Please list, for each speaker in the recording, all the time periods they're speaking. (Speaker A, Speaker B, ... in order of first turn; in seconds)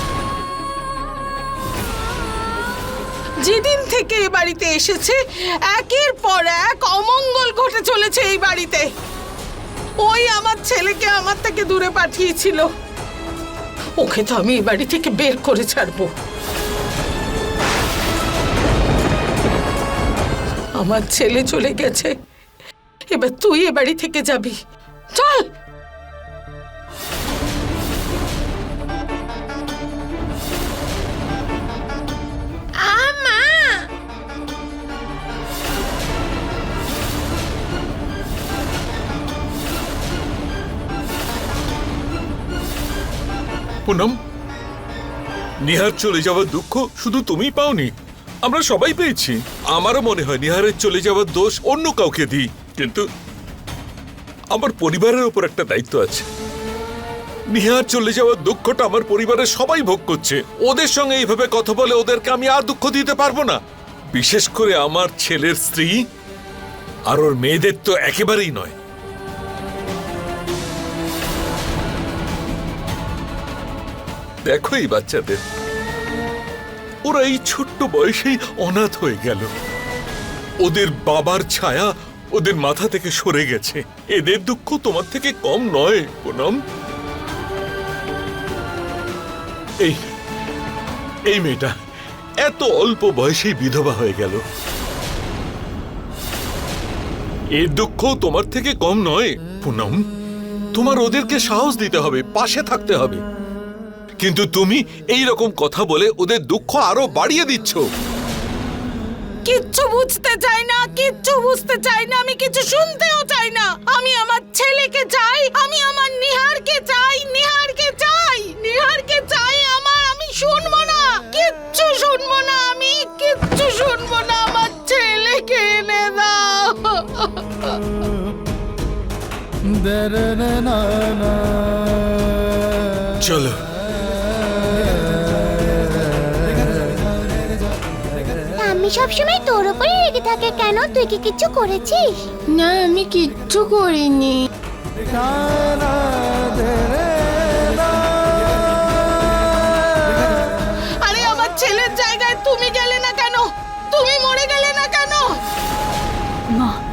Speaker A: 3.4-8.9, 10.0-12.7, 14.0-16.1, 20.8-22.1, 23.1-24.6, 25.1-25.4, 109.5-127.7, 151.0-155.3
Speaker B: 32.8-33.8, 142.6-144.4
Speaker C: 43.9-44.1, 45.6-47.9, 48.4-53.0, 54.5-56.3, 57.5-63.6, 64.1-66.0, 67.1-68.7, 74.5-75.4, 77.0-79.5, 80.6-86.6, 89.8-90.1, 91.3-91.7, 92.4-94.4, 97.6-100.0, 100.8-103.2, 104.2-107.8, 133.2-133.6
Speaker D: 138.6-142.1